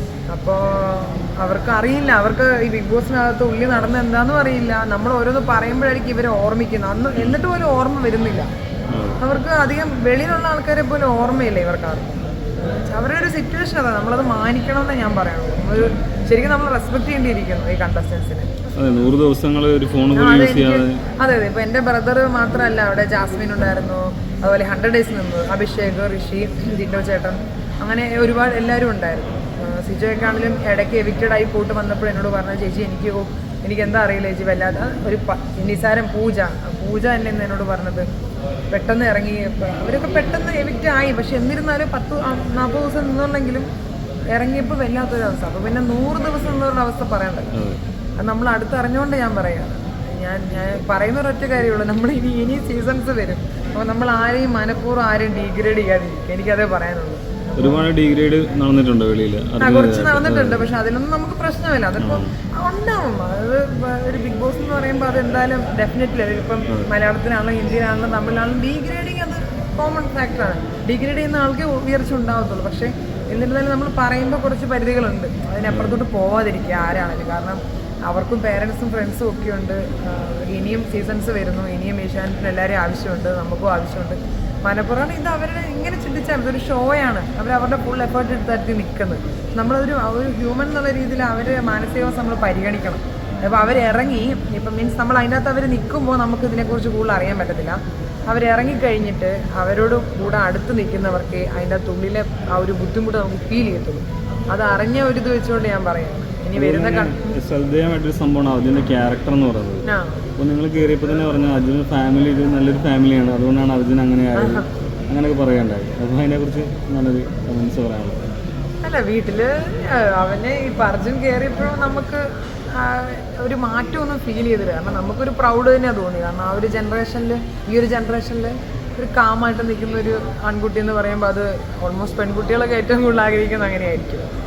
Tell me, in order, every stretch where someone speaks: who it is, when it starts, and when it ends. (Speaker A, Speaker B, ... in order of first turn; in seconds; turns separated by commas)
Speaker A: 0.3-8.5, Speaker B: 8.9-9.2, Speaker A: 9.2-18.5, Speaker B: 18.8-21.0, Speaker A: 20.1-38.1, Speaker A: 38.7-43.7, Speaker A: 44.3-47.5, Speaker B: 47.5-47.8, Speaker A: 48.2-57.2, Speaker B: 57.5-60.7, Speaker A: 59.6-107.1, Speaker B: 62.0-62.3, Speaker B: 75.7-76.0, Speaker B: 106.5-109.8, Speaker A: 109.9-110.2, Speaker B: 110.4-118.2, Speaker A: 114.3-114.7, Speaker A: 118.8-134.3